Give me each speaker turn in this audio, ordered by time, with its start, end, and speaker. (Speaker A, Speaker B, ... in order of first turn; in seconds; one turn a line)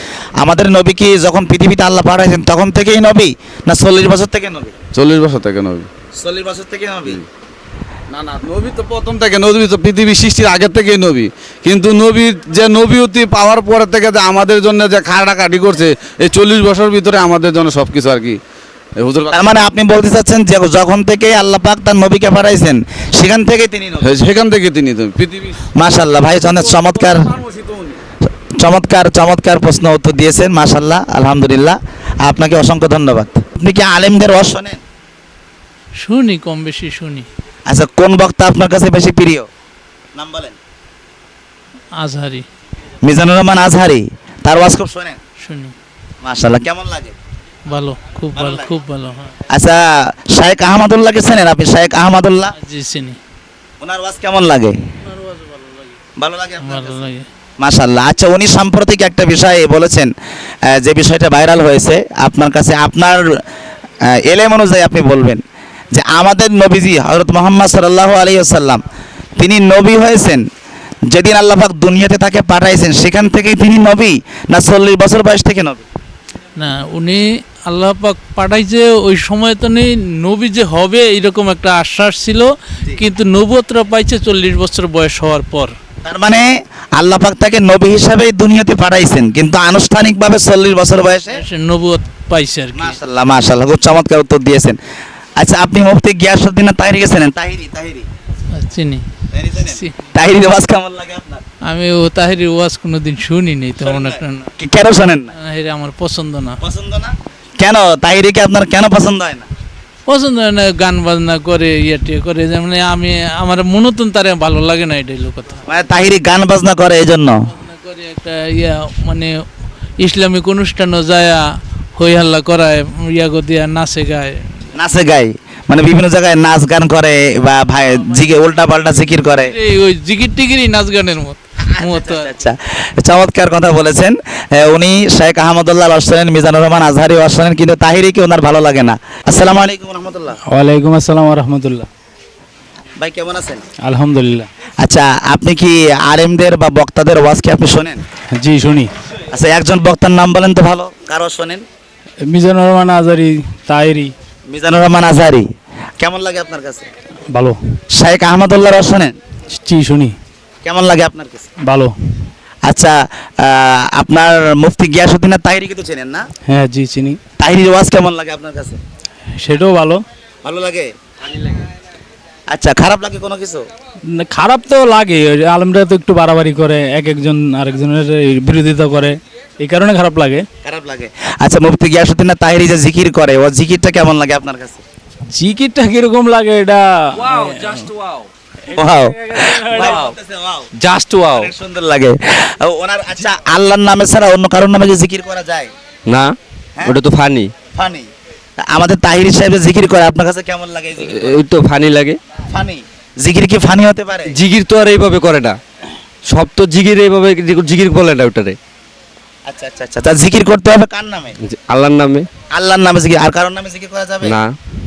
Speaker A: 0.4-4.7
Speaker B: 5.0-5.9
Speaker A: 6.2-7.2
Speaker B: 8.1-18.4
Speaker B: 19.0-19.5
Speaker A: 19.3-24.1
Speaker B: 24.0-25.6
Speaker A: 25.8-27.3
Speaker B: 26.7-28.0
Speaker A: 28.6-34.8
Speaker C: 36.0-37.3
Speaker A: 37.7-39.5
Speaker A: 40.2-40.6
Speaker C: 42.0-42.5
Speaker A: 43.0-45.2
Speaker C: 45.4-45.8
Speaker A: 46.2-47.2
Speaker C: 47.7-49.3
Speaker A: 48.3-48.7
Speaker A: 49.5-52.5
Speaker C: 52.5-53.2
Speaker A: 53.8-54.8
Speaker C: 55.1-55.8
Speaker A: 56.2-57.1
Speaker C: 56.6-57.3
Speaker A: 57.6-60.1
Speaker A: 60.7-63.4
Speaker A: 64.1-68.8
Speaker A: 69.4-70.5
Speaker A: 71.1-75.8
Speaker C: 76.6-85.7
Speaker A: 86.0-91.4
Speaker C: 91.3-93.0
Speaker A: 92.7-94.8
Speaker A: 95.4-98.1
Speaker C: 98.5-99.0
Speaker A: 99.3-101.4
Speaker C: 99.6-100.0
Speaker C: 101.7-104.5
Speaker A: 103.8-105.3
Speaker C: 105.4-106.6
Speaker A: 106.6-109.5
Speaker C: 110.1-115.6
Speaker A: 115.7-117.4
Speaker C: 117.6-119.4
Speaker C: 120.0-121.5
Speaker C: 122.0-124.5
Speaker A: 124.8-129.6
Speaker C: 127.9-128.2
Speaker C: 129.3-132.3
Speaker A: 131.7-140.4
Speaker D: 140.5-141.9
Speaker A: 143.0-143.6
Speaker D: 143.8-144.5
Speaker A: 144.8-148.0
Speaker D: 148.3-148.9
Speaker A: 149.3-151.7
Speaker D: 152.3-154.1
Speaker A: 154.5-155.5
Speaker A: 156.0-156.9
Speaker D: 157.3-157.6
Speaker A: 157.9-159.2
Speaker D: 159.6-160.2
Speaker A: 160.6-161.5
Speaker D: 161.6-161.9
Speaker A: 162.7-166.2
Speaker D: 166.5-167.2
Speaker A: 167.4-168.8
Speaker D: 169.4-170.0
Speaker A: 170.4-171.6
Speaker A: 172.5-173.7
Speaker D: 174.2-180.5
Speaker A: 180.6-184.8
Speaker D: 185.3-187.9
Speaker D: 188.7-190.1
Speaker A: 188.7-190.7
Speaker E: 190.8-191.5
Speaker A: 191.3-195.7
Speaker E: 196.1-197.5
Speaker A: 197.8-198.1
Speaker A: 198.7-201.4
Speaker E: 201.0-202.2
Speaker A: 202.5-204.4
Speaker E: 204.3-205.6
Speaker E: 206.3-208.6
Speaker A: 209.5-211.4
Speaker E: 211.4-212.3
Speaker A: 212.5-214.4
Speaker E: 214.2-214.5